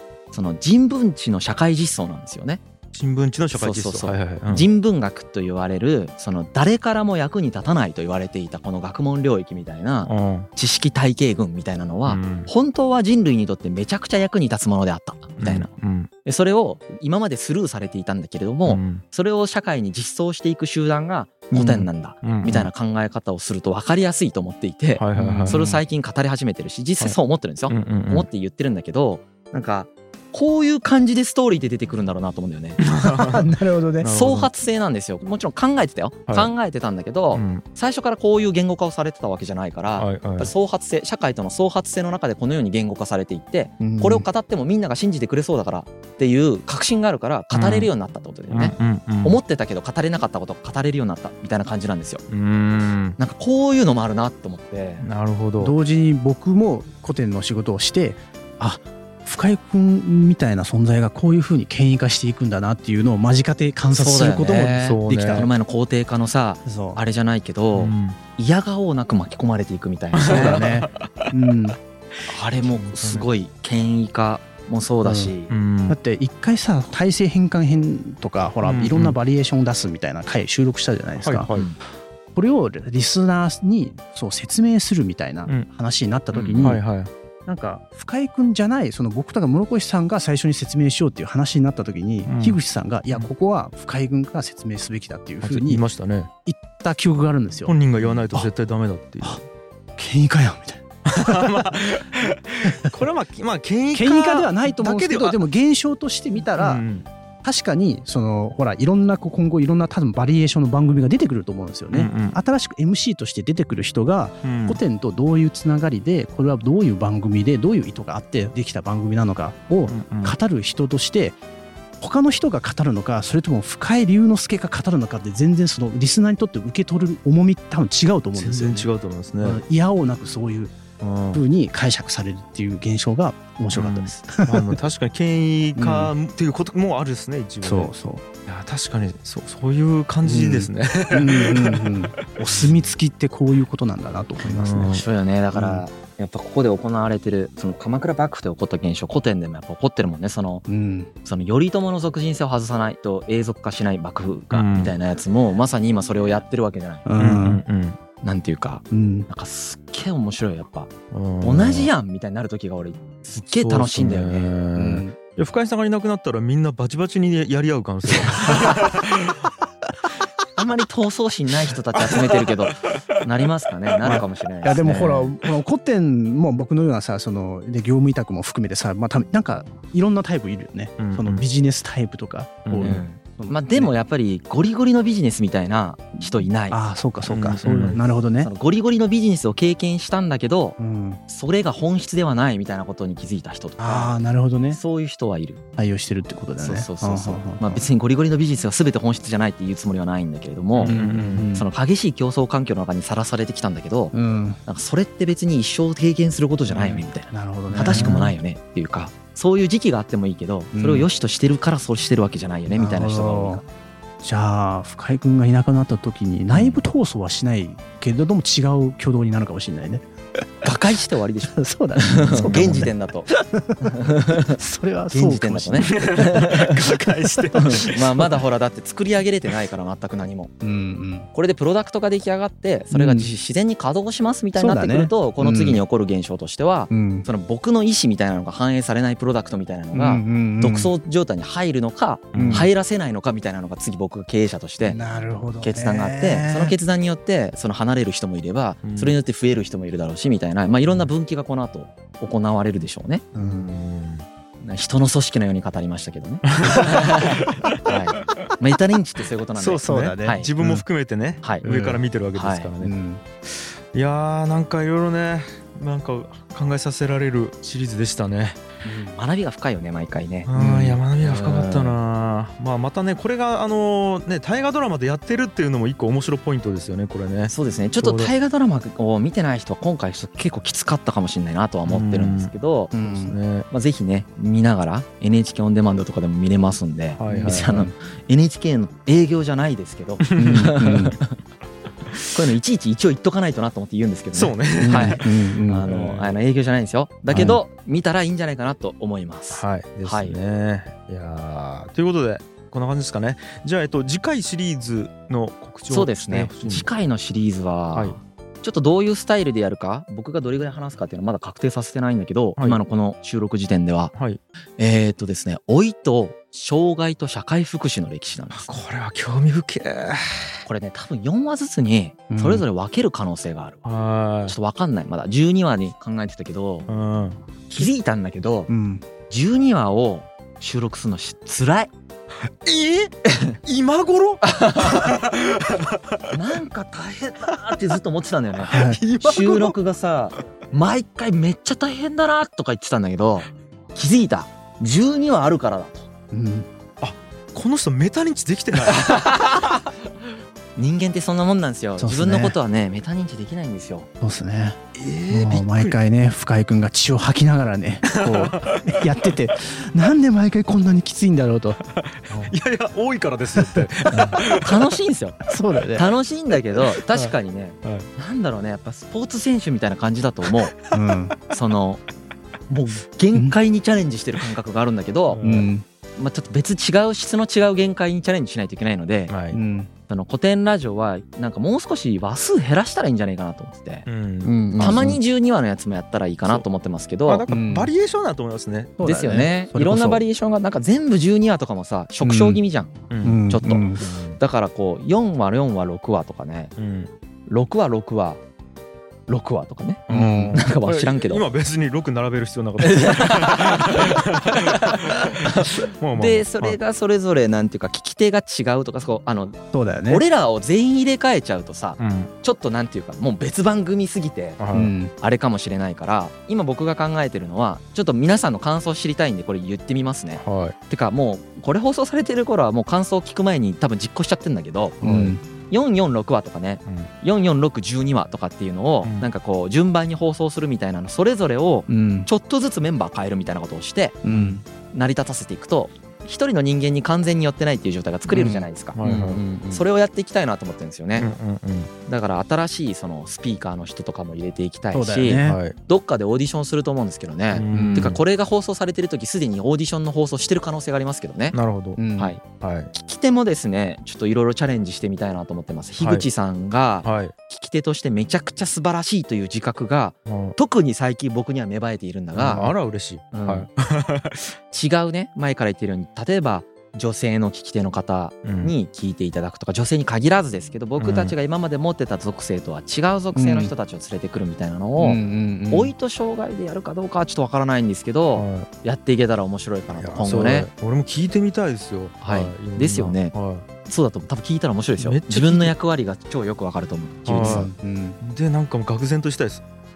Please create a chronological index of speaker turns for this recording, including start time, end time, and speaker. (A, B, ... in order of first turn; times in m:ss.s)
0:00.3-0:02.6 A
0:02.9-0:04.7 B
0:03.5-0:15.7 A
0:10.0-0:10.5 B
0:12.1-0:12.5 B
0:15.4-0:16.1 B
0:16.2-0:32.8 A
0:18.6-0:19.0 B
0:21.5-0:22.7 B
0:25.0-0:25.8 B
0:25.1-0:25.8 C
0:27.7-0:28.3 B
0:32.8-0:33.5 B
0:33.0-0:34.1 C
0:34.0-0:34.5 B
0:34.0-0:52.2 A
0:37.3-0:37.6 B
0:40.0-0:40.5 B
0:43.8-0:44.2 C
0:47.5-0:47.9 B
0:48.5-0:49.4 B
0:52.3-0:53.2 B
0:53.2-0:55.0 A
0:55.0-0:55.7 B
0:55.6-1:05.5 C
1:03.9-1:10.6 A
1:04.8-1:05.5 B
1:06.6-1:07.0 C
1:07.7-1:08.2 B
1:10.1-1:10.8 B
1:10.2-1:11.8 C
1:12.2-1:15.5 A
1:12.5-1:13.3 B
1:15.0-1:15.3 C
1:15.5-1:16.0 B
1:15.9-1:21.5 C
1:18.6-1:19.2 B
1:21.2-1:21.7 B
1:22.3-1:26.8 C
1:26.3-1:26.8 A
1:26.6-1:27.1 B
1:27.4-1:35.8 C
1:32.2-1:32.6 B
1:35.4-1:36.3 B
1:36.4-1:37.8 C
1:37.6-1:39.4 B
1:40.0-1:41.7 C
1:41.1-1:45.4 B
1:42.6-1:43.0 C
1:43.9-1:46.8 C
1:46.4-1:47.1 B
1:47.4-2:01.4 C
1:51.9-1:52.4 B
1:54.4-1:54.8 B
1:59.9-2:00.3 B
2:02.0-2:08.9 C
2:08.3-2:09.6 B
2:09.4-2:10.8 C
2:11.0-2:11.4 B
2:11.3-2:14.8 C
2:13.7-2:17.9 B
2:15.8-2:16.1 C
2:17.6-2:18.2 C
2:18.4-2:22.6 B
2:20.2-2:25.0 C
2:24.4-2:25.0 B
2:24.9-2:30.6 A
2:25.5-2:25.8 C
2:30.7-2:31.1 C
2:31.2-2:37.1 A
2:34.5-2:34.9 B
2:37.0-2:37.6 C
2:37.2-2:38.0 B
2:38.2-2:44.5 A
2:38.9-2:39.3 C
2:41.1-2:41.9 B
2:43.4-2:49.3 B
2:44.7-2:45.2 C
2:48.1-2:48.6 C
2:50.6-2:55.3 A
2:54.0-3:03.9 C
2:54.0-2:55.2 B
3:01.0-3:01.4 B
3:02.6-3:03.0 B
3:02.8-3:06.8 A
3:06.4-3:08.5 C
3:07.3-3:08.0 B
3:08.4-3:10.8 A
3:10.8-3:11.2 C
3:11.3-3:14.2 A
3:13.8-3:14.8 C
3:14.7-3:15.6 A
3:15.8-3:17.9 C
3:16.6-3:21.0 A
3:20.8-3:21.5 B
3:20.8-3:21.7 C
3:21.5-3:24.1 A
3:24.1-3:24.6 C
3:24.6-3:33.6 A
3:26.7-3:28.3 C
3:27.8-3:28.2 B
3:30.7-3:31.1 C
3:32.7-3:33.6 C
3:34.2-3:40.1 C
3:36.5-3:36.8 A
3:40.6-3:43.3 A
3:41.5-3:43.9 C
3:42.3-3:42.9 B
3:43.8-3:44.6 A
3:44.6-3:46.4 C
3:45.1-3:46.7 A
3:45.8-3:48.4 B
3:47.4-3:47.6 C
3:47.5-3:50.5 A
3:50.6-3:51.3 C
3:51.3-4:05.0 A
3:52.9-3:53.3 C
3:54.5-3:55.8 C
3:56.9-3:57.3 C
3:59.9-4:00.9 C
4:02.3-4:02.7 B
4:02.3-4:02.7 C
4:04.8-4:06.8 C
4:05.6-4:13.2 A
4:08.8-4:09.2 B
4:13.3-4:13.7 C
4:13.3-4:14.2 B
4:14.6-4:20.5 A
4:16.5-4:17.9 B
4:19.6-4:22.9 B
4:19.8-4:20.8 C
4:21.6-4:22.0 C
4:22.3-4:22.7 A
4:22.8-4:23.2 C
4:23.5-4:28.6 B
4:28.8-4:30.5 A
4:30.4-4:38.3 B
4:30.5-4:31.0 C
4:31.2-4:32.0 A
4:37.5-4:42.9 A
4:41.8-4:43.7 B
4:42.9-4:43.4 C
4:43.7-4:51.3 A
4:47.1-4:47.9 B
4:47.3-4:47.9 C
4:50.2-4:51.1 B
4:50.4-4:51.2 C
4:52.2-5:00.4 A
4:54.3-4:56.3 B
4:54.8-4:55.8 C
4:57.3-4:57.6 C
4:59.5-5:06.9 B
5:05.9-5:14.1 A
5:14.1-5:14.4 B
5:14.8-5:18.7 A
5:18.6-5:20.6 B
5:20.6-5:23.8 A
5:22.3-5:22.6 C
5:23.8-5:24.5 B
5:24.5-5:26.9 A
5:26.9-5:27.4 B
5:27.7-5:28.7 A
5:28.7-5:29.0 C
5:29.3-5:31.9 A
5:32.6-5:36.3 B
5:34.4-5:35.2 A
5:36.3-5:46.1 A
5:38.6-5:39.7 B
5:38.7-5:39.0 C
5:46.3-5:46.7 C
5:47.0-5:49.3 B
5:48.9-5:49.7 A
5:50.8-5:54.1 A
5:52.0-5:52.6 C
5:54.2-5:54.8 C
5:54.9-5:56.0 B
5:55.3-6:02.5 C
5:58.1-5:59.1 B
6:02.0-6:04.9 B
6:03.5-6:04.4 C
6:04.4-6:05.4 A
6:05.4-6:06.1 C
6:05.9-6:10.7 A
6:07.0-6:08.1 B
6:10.9-6:11.3 C
6:11.5-6:12.0 A
6:12.7-6:15.4 A
6:13.3-6:13.6 C
6:15.3-6:15.7 B
6:15.4-6:15.8 C
6:16.2-6:19.3 A
6:19.3-6:19.6 B
6:19.5-6:19.9 C
6:20.1-6:24.0 A
6:24.0-6:25.1 B
6:24.4-6:25.2 C
6:24.8-6:27.4 A
6:27.2-6:29.0 B
6:27.5-6:27.9 C
6:29.0-6:30.2 C
6:29.0-6:36.7 A
6:32.2-6:32.6 C
6:33.1-6:33.4 B
6:33.2-6:34.0 C
6:34.0-6:34.4 B
6:36.8-6:37.1 B
6:37.5-6:38.4 A
6:39.3-6:41.4 A
6:40.1-6:40.6 C
6:40.1-6:46.8 B
6:42.8-6:54.6 A
6:49.7-6:50.2 C
6:52.0-6:52.3 B
6:54.6-6:54.9 B
6:54.7-6:55.1 C
6:55.2-7:14.2 A
7:00.4-7:00.8 B
7:05.0-7:05.4 B
7:05.0-7:05.4 C
7:09.0-7:09.3 B
7:11.9-7:12.3 C
7:14.2-7:14.6 C
7:14.3-7:14.6 B
7:14.9-7:19.0 A
7:18.3-7:19.8 C
7:19.0-7:19.4 B
7:19.7-7:21.3 A
7:21.2-7:21.9 B
7:22.0-7:31.6 A
7:24.9-7:25.6 C
7:25.4-7:25.8 B
7:27.5-7:28.2 B
7:27.7-7:28.2 C
7:31.5-7:32.9 B
7:32.0-7:32.4 C
7:32.9-7:42.7 A
7:36.0-7:36.3 B
7:37.0-7:37.3 B
7:40.2-7:40.5 B
7:42.3-7:44.5 B
7:43.3-7:43.7 A
7:44.7-8:00.7 A
7:48.4-7:48.7 B
7:51.0-7:51.3 B
7:53.3-7:53.7 C
7:55.0-7:55.9 C
7:58.3-7:58.7 B
8:00.0-8:03.6 B
8:02.2-8:03.3 A
8:03.8-8:07.7 A
8:05.0-8:05.7 B
8:07.2-8:09.6 B
8:07.4-8:08.2 C